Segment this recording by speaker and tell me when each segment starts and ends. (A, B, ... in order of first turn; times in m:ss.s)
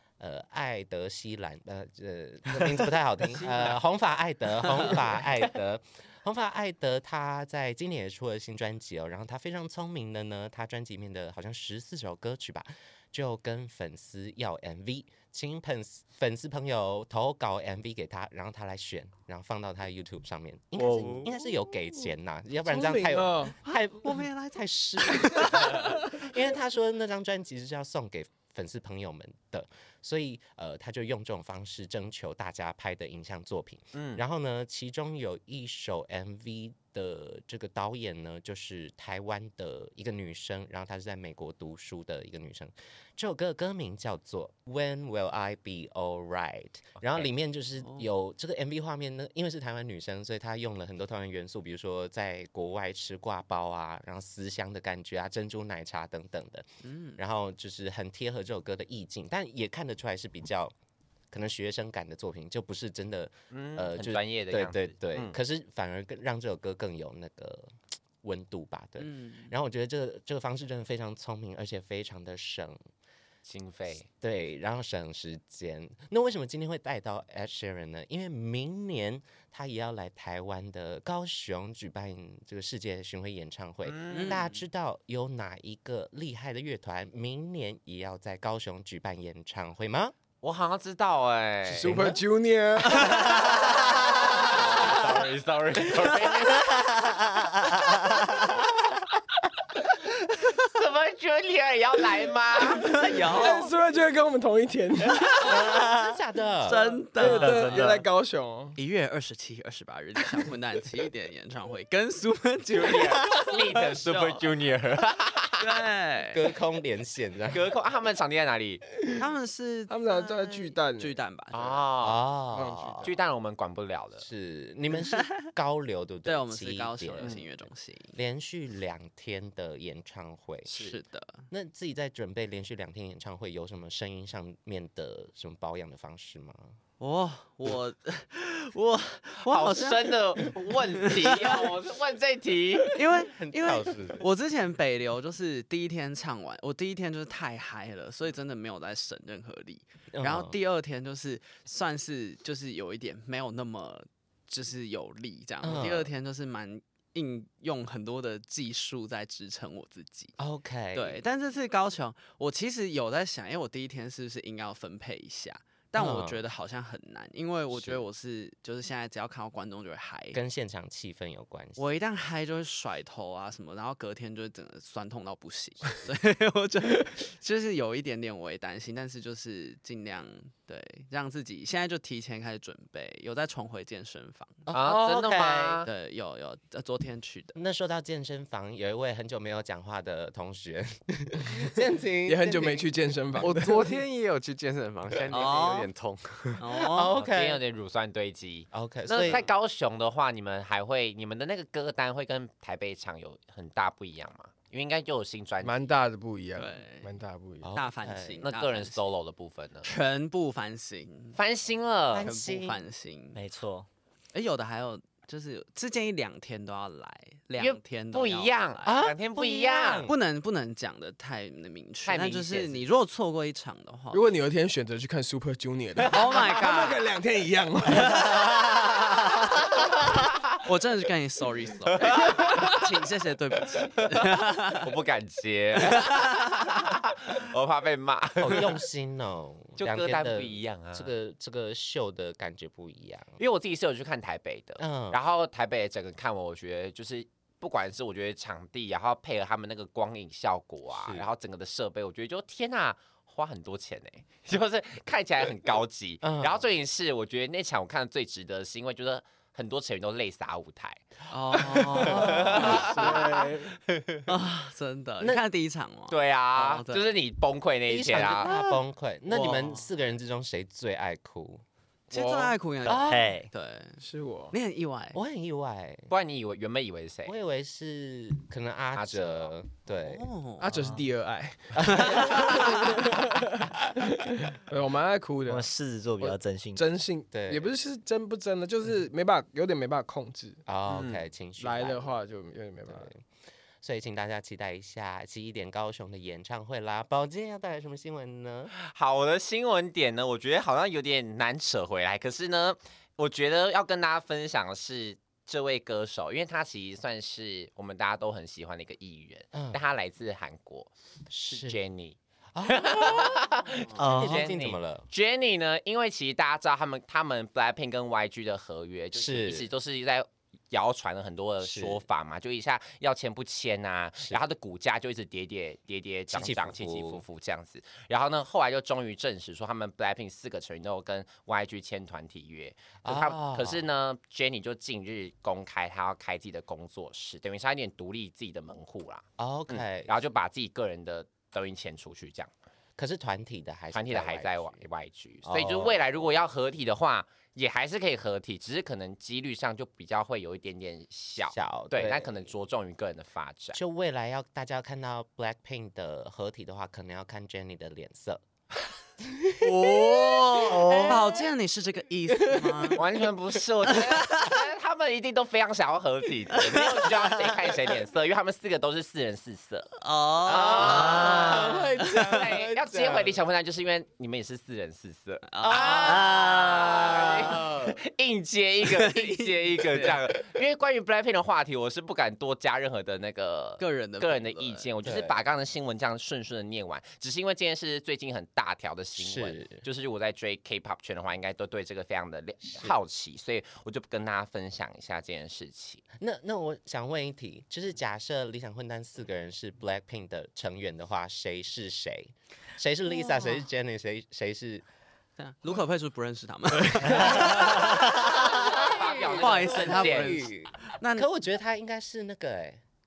0:00.2-0:56.7 A
0:03.4-0:03.7 B
0:20.8-0:21.3 C
0:22.6-0:23.6 C
0:25.2-0:26.0 C
0:33.9-0:34.2 D
0:47.0-0:47.3 D
0:47.8-0:48.1 B
0:56.8-0:57.2 B
0:57.2-1:00.7 A
1:01.3-1:12.8 A
1:03.5-1:05.4 D
1:09.0-1:09.6 B
1:13.4-1:14.1 D
1:14.2-1:30.2 A
1:23.8-1:24.5 D
1:24.1-1:24.6 B
1:30.4-1:32.0 D
1:31.6-1:33.5 C
1:31.8-1:32.2 A
1:32.8-1:35.0 B
1:33.0-1:36.9 D
1:36.8-1:38.2 E
1:40.5-1:42.9 D
1:42.8-1:43.7 B
1:43.0-1:45.5 C
1:45.1-1:45.6 B
1:45.4-1:47.0 A
1:46.6-1:48.0 B
1:47.2-1:48.8 C
1:47.2-1:48.0 E
1:48.8-1:54.4 B
1:52.7-1:55.6 D
1:55.6-1:56.4 B
1:56.3-1:57.6 A
1:57.5-1:58.8 D
1:59.2-2:01.8 B
1:59.9-2:01.2 C
2:01.5-2:02.2 D
2:02.0-2:03.1 A
2:02.5-2:03.1 C
2:03.0-2:04.3 D
2:04.2-2:07.4 A
2:06.3-2:08.2 B
2:08.2-2:10.7 A
2:10.7-2:11.0 D
2:10.7-2:11.5 B
2:11.5-2:16.7 A
2:17.0-2:21.7 B
2:19.4-2:23.0 D
2:22.9-2:40.3 B
2:23.2-2:24.2 A
2:30.1-2:30.5 A
2:35.6-2:36.1 A
2:40.4-2:41.2 A
2:41.0-2:50.4 B
2:46.0-2:46.4 A
2:47.7-2:48.0 A
2:50.3-2:51.8 A
2:51.8-3:04.7 B
3:04.7-3:05.9 A
3:04.7-3:05.9 D
3:05.9-3:07.6 B
3:07.6-3:12.9 A
3:12.3-3:14.0 C
3:13.4-3:16.6 F
3:15.3-3:15.9 B
3:16.6-3:17.1 B
3:16.8-3:17.6 A
3:17.1-3:25.8 D
3:18.7-3:19.5 A
3:25.6-3:27.7 C
3:26.6-3:27.1 B
3:27.6-3:28.4 A
3:27.8-3:29.0 B
3:28.4-3:29.9 D
3:29.8-3:31.4 B
3:31.4-3:32.3 D
3:32.1-3:32.8 A
3:32.2-3:33.4 B
3:33.3-3:33.9 E
3:34.3-3:38.9 B
3:37.6-3:40.1 D
3:38.9-3:40.2 A
3:40.1-3:44.2 B
3:42.1-3:42.8 D
3:44.1-3:49.2 C
3:46.1-3:47.0 B
3:48.0-3:48.4 B
3:50.6-3:54.9 B
3:52.0-3:52.6 D
3:54.7-3:58.8 D
3:55.8-3:56.2 B
3:58.4-4:03.4 A
3:59.8-4:01.1 D
4:03.4-4:21.0 D
4:04.8-4:05.2 A
4:10.9-4:11.3 A
4:16.2-4:16.6 A
4:21.3-4:23.2 B
4:21.8-4:24.2 D
4:22.0-4:23.0 A
4:22.4-4:23.8 C
4:24.3-4:27.0 B
4:26.1-4:28.5 D
4:27.9-4:31.6 A
4:28.1-4:29.9 B
4:32.1-4:35.2 B
4:32.1-4:32.5 C
4:32.8-4:33.4 A
4:32.9-4:33.5 E
4:34.0-4:34.6 C
4:35.1-4:36.1 A
4:36.1-4:37.4 D
4:37.3-4:40.3 A
4:39.0-4:39.5 D
4:40.0-4:40.7 B
4:40.6-4:50.6 C
4:40.7-4:41.0 E
4:41.9-4:42.6 B
4:41.9-4:42.7 A
4:45.5-4:46.8 E
4:47.3-4:47.7 A
4:50.7-4:52.2 A
4:50.9-4:51.2 D
4:51.6-4:53.1 C
4:52.9-4:53.2 A
4:53.8-4:58.7 A
4:58.8-5:10.9 D
5:09.5-5:09.8 A
5:11.3-5:11.8 A
5:11.5-5:42.5 D
5:12.6-5:15.1 A
5:14.0-5:14.5 E
5:19.2-5:19.7 A
5:21.6-5:22.0 A
5:26.3-5:27.2 A
5:33.0-5:33.8 A
5:39.4-5:40.1 A
5:43.0-5:44.8 A
5:43.9-5:53.8 D
5:45.5-5:46.0 A
5:51.5-5:52.5 A
5:53.8-5:58.4 A
5:59.2-6:01.4 A
5:59.6-6:03.0 B
6:00.6-6:01.4 E
6:02.4-6:03.1 A
6:03.0-6:09.9 D
6:03.9-6:04.4 B
6:10.0-6:12.2 B
6:10.5-6:13.4 A
6:10.5-6:36.0 D
6:15.5-6:16.8 B
6:15.6-6:18.0 A
6:18.9-6:20.2 B
6:23.8-6:24.9 B
6:25.0-6:25.4 A
6:29.2-6:29.8 A
6:36.2-6:44.8 A
6:43.1-6:43.6 B
6:45.4-6:48.7 B
6:47.1-6:52.8 A
6:48.4-6:50.5 D
6:49.4-6:51.3 B